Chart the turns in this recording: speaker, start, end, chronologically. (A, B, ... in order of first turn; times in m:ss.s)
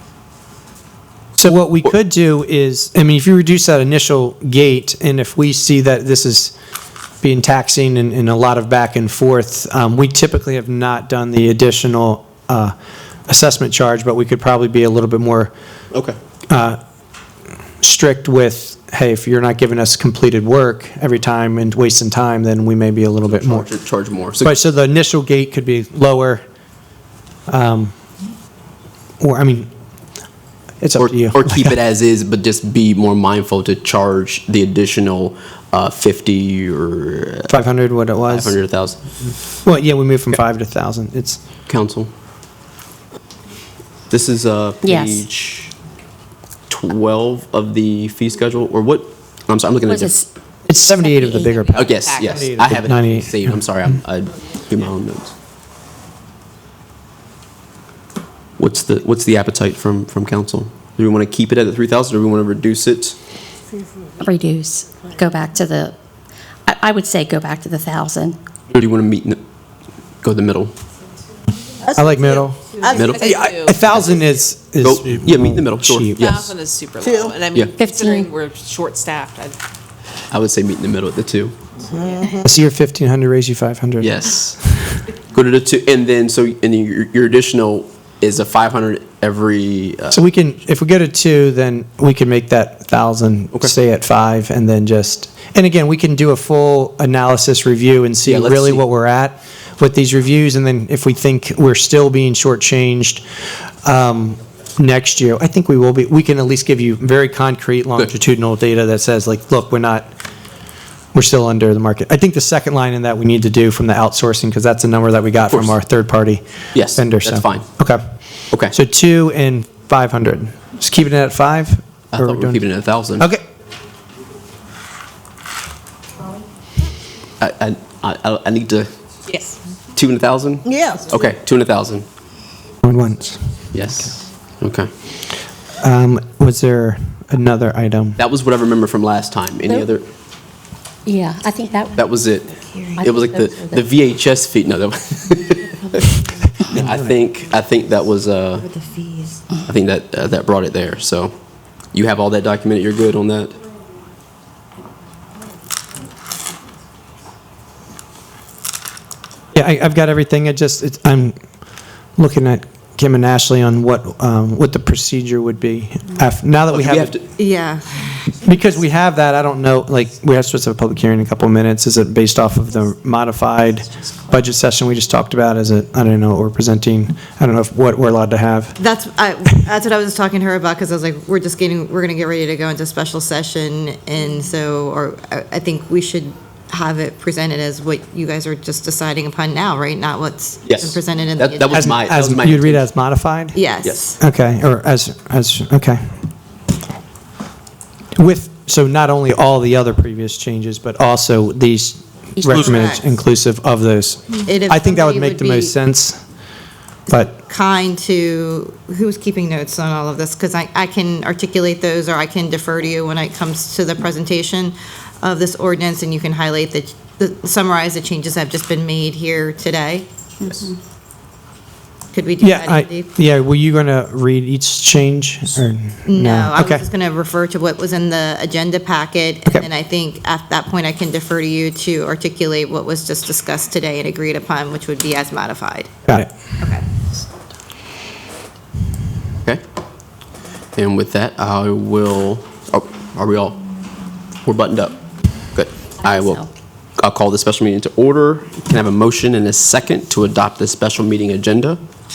0:01.4-0:06.5 A
0:07.2-0:12.7 A
0:13.3-0:15.5 A
0:16.5-0:16.8 A
0:17.8-0:23.7 A
0:23.3-0:24.6 B
0:24.4-0:26.4 A
0:27.5-0:27.9 A
0:29.2-0:29.7 A
0:30.8-0:31.8 A
0:31.0-0:37.5 B
0:37.5-0:38.6 A
0:38.3-0:39.1 B
0:39.6-0:41.4 A
0:41.7-0:42.1 B
0:44.1-0:45.7 B
0:44.8-0:45.2 C
0:46.7-0:50.2 B
0:49.8-0:50.2 C
0:50.7-0:53.6 A
0:51.2-0:52.6 D
0:51.7-0:55.3 B
0:58.6-1:03.2 B
1:04.2-1:05.9 C
1:06.6-1:08.4 C
1:08.7-1:09.4 B
1:10.2-1:10.7 B
1:11.9-1:12.6 A
1:12.1-1:13.9 D
1:12.9-1:14.2 B
1:13.1-1:16.4 A
1:14.8-1:16.5 B
1:16.2-1:19.6 D
1:17.8-1:18.3 C
1:20.3-1:21.5 B
1:22.4-1:25.0 A
1:24.0-1:24.6 B
1:25.3-1:30.2 B
1:30.1-1:43.2 A
1:38.2-1:38.8 B
1:43.8-1:50.1 A
1:51.1-1:56.4 A
1:55.5-1:55.7 B
1:56.7-1:57.6 B
1:56.9-1:58.0 A
1:58.6-2:02.6 A
2:02.1-2:03.3 B
2:07.4-2:08.9 B
2:09.3-2:09.6 D
2:09.9-2:12.0 B
2:12.8-2:13.5 A
2:13.7-2:14.9 B
2:15.8-2:18.2 A
2:18.2-2:20.0 B
2:21.0-2:22.0 C
2:22.0-2:28.7 B
2:23.0-2:23.8 C
2:26.7-2:27.0 A
2:28.8-2:29.4 E
2:29.6-2:31.3 B
2:31.9-2:33.6 B
2:39.5-2:41.3 A
2:42.2-2:47.1 A
2:46.7-2:47.2 B
2:47.4-2:48.0 E
2:48.4-2:58.8 A
2:58.8-3:11.9 E
3:10.6-3:12.9 B
3:11.7-3:13.6 A
3:13.5-3:14.2 E
3:13.8-3:14.1 B
3:14.2-3:16.1 A
3:18.2-3:26.2 A
3:22.4-3:23.1 E
3:24.4-3:25.7 E
3:27.1-3:40.1 E
3:40.4-3:40.7 C
3:42.1-3:43.1 E
3:42.4-3:46.8 A
3:46.1-3:55.9 E
4:00.8-4:03.6 B
4:04.4-4:05.0 B
4:05.5-4:06.4 B
4:06.0-4:06.4 C
4:07.0-4:11.8 B